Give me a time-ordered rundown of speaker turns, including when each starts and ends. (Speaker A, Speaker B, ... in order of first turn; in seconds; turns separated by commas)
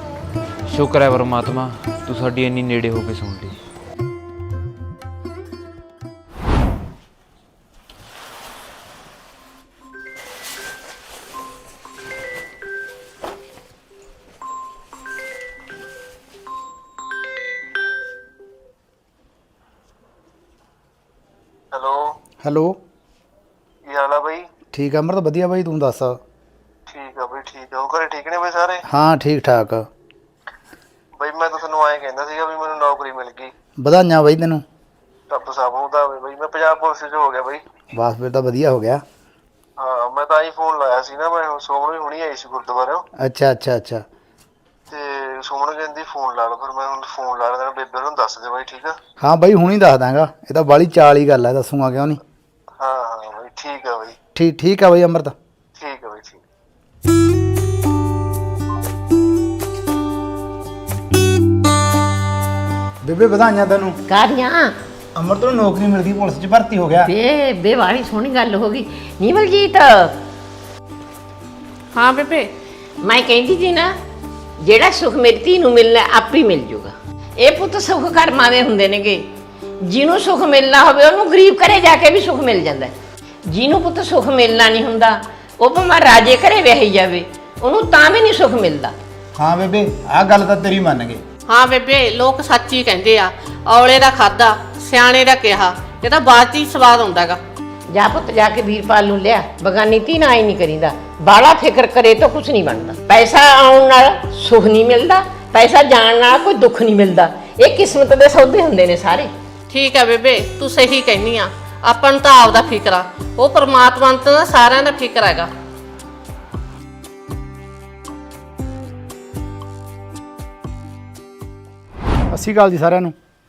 Speaker A: 0.7-3.5, Speaker B: 21.7-22.1, Speaker C: 22.4-22.8, Speaker B: 23.9-24.5, Speaker C: 24.7-26.2, Speaker B: 26.9-28.8, Speaker C: 28.9-29.9, Speaker B: 31.2-33.5, Speaker C: 33.8-34.6, Speaker B: 35.3-37.6, Speaker C: 37.9-39.0, Speaker B: 39.8-43.0, Speaker C: 43.2-44.0, Speaker B: 44.9-49.0, Speaker C: 49.2-52.2, Speaker B: 52.8-54.1, Speaker C: 54.3-55.3, Speaker B: 55.8-56.4, Speaker C: 63.0-64.0, Speaker D: 64.1-64.7, Speaker C: 65.2-67.1, Speaker D: 67.0-70.2, Speaker E: 71.9-72.4, Speaker D: 73.0-73.9, Speaker D: 74.6-79.2, Speaker D: 79.8-82.9, Speaker D: 83.5-88.9, Speaker C: 89.3-91.2, Speaker E: 91.5-97.4, Speaker D: 97.9-109.3, Speaker E: 109.7-115.5, Speaker C: 122.3-123.1